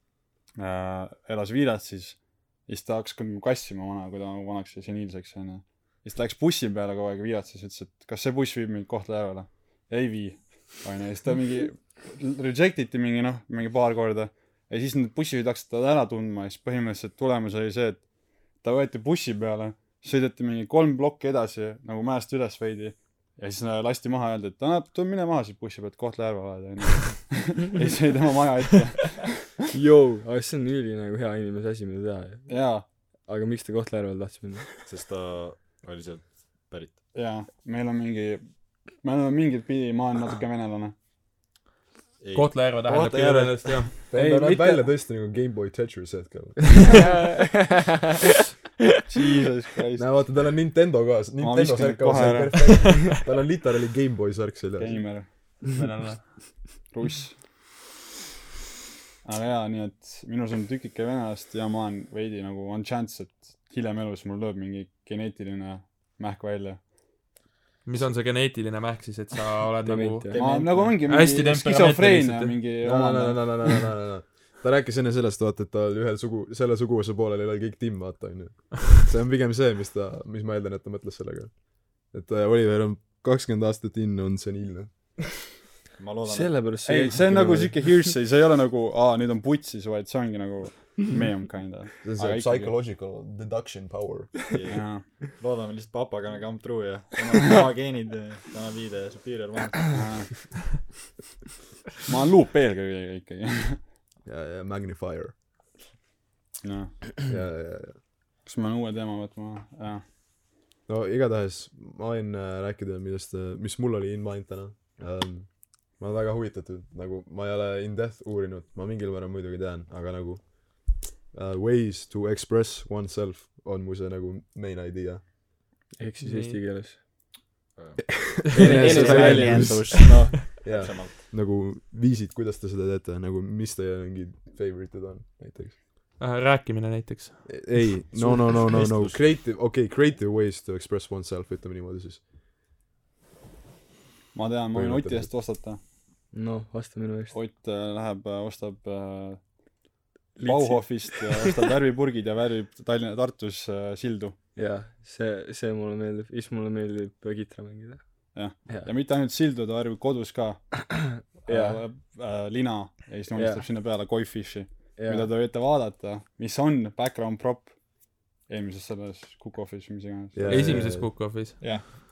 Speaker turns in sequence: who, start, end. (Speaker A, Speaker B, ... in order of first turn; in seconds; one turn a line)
Speaker A: 0.6-29.3
Speaker B: 29.7-32.7
Speaker A: 32.5-32.8
Speaker B: 33.2-34.7
Speaker C: 34.9-37.1
Speaker A: 37.1-40.9
Speaker C: 42.2-43.6
Speaker D: 42.3-43.9
Speaker A: 42.9-44.8
Speaker E: 44.1-47.0
Speaker B: 46.9-47.8
Speaker A: 49.1-50.2
Speaker E: 50.0-55.1
Speaker A: 51.4-53.1
Speaker A: 54.8-55.5
Speaker D: 55.6-56.7
Speaker A: 56.9-57.4
Speaker A: 59.2-66.9
Speaker D: 67.8-72.6
Speaker B: 69.8-70.7
Speaker A: 70.3-73.6
Speaker E: 72.8-85.2
Speaker C: 86.0-86.8
Speaker B: 86.2-88.1
Speaker A: 86.9-92.7
Speaker E: 92.0-94.5
Speaker C: 94.5-100.0
Speaker A: 94.7-95.2
Speaker A: 99.9-100.8
Speaker A: 102.1-103.9
Speaker E: 104.2-105.3
Speaker A: 106.6-107.0
Speaker E: 107.3-108.0
Speaker A: 108.4-110.0
Speaker E: 110.9-125.2
Speaker B: 126.0-127.0
Speaker D: 126.2-126.6
Speaker C: 127.8-131.2
Speaker E: 128.0-135.8
Speaker B: 128.5-130.4
Speaker D: 136.2-137.8
Speaker E: 137.5-142.2
Speaker C: 138.1-139.3
Speaker A: 144.3-145.8
Speaker E: 144.7-145.3
Speaker B: 146.3-147.4
Speaker A: 147.3-149.4
Speaker B: 150.3-151.5
Speaker A: 150.4-154.4
Speaker B: 154.6-158.9
Speaker A: 158.3-171.0
Speaker B: 161.3-161.8
Speaker B: 163.3-163.7
Speaker B: 165.0-165.3
Speaker E: 170.3-171.2
Speaker D: 170.5-171.6